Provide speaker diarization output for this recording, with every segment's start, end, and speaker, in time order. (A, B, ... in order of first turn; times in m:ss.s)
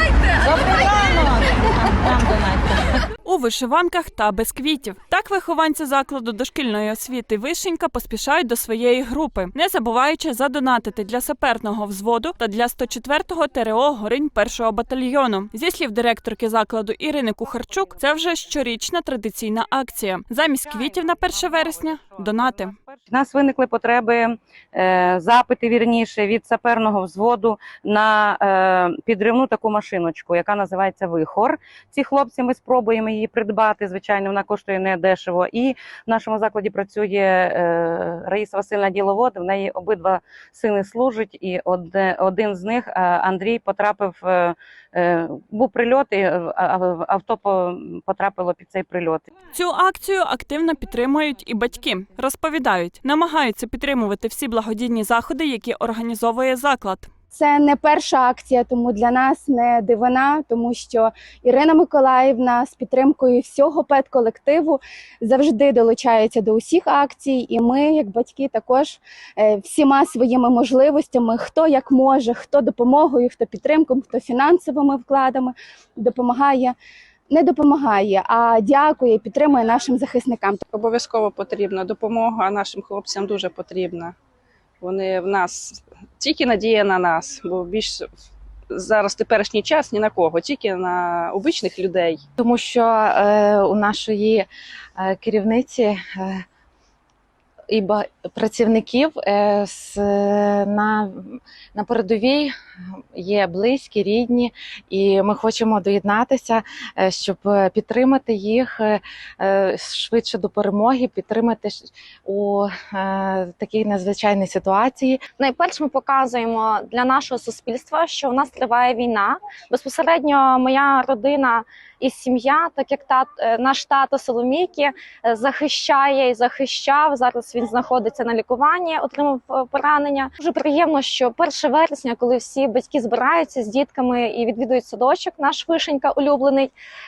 0:00.3-0:02.9 A
0:03.2-0:22.7 B
0:20.6-0:49.3 A
0:49.5-0:57.1 B
0:57.3-1:16.7 C
1:17.3-1:20.6 C
1:20.7-1:24.1 D
1:24.8-1:28.0 D
1:28.7-1:32.2 D
1:32.4-1:34.5 E
1:35.0-1:36.4 E
1:37.7-1:42.5 E
1:43.1-1:55.2 E
1:55.4-2:16.7 F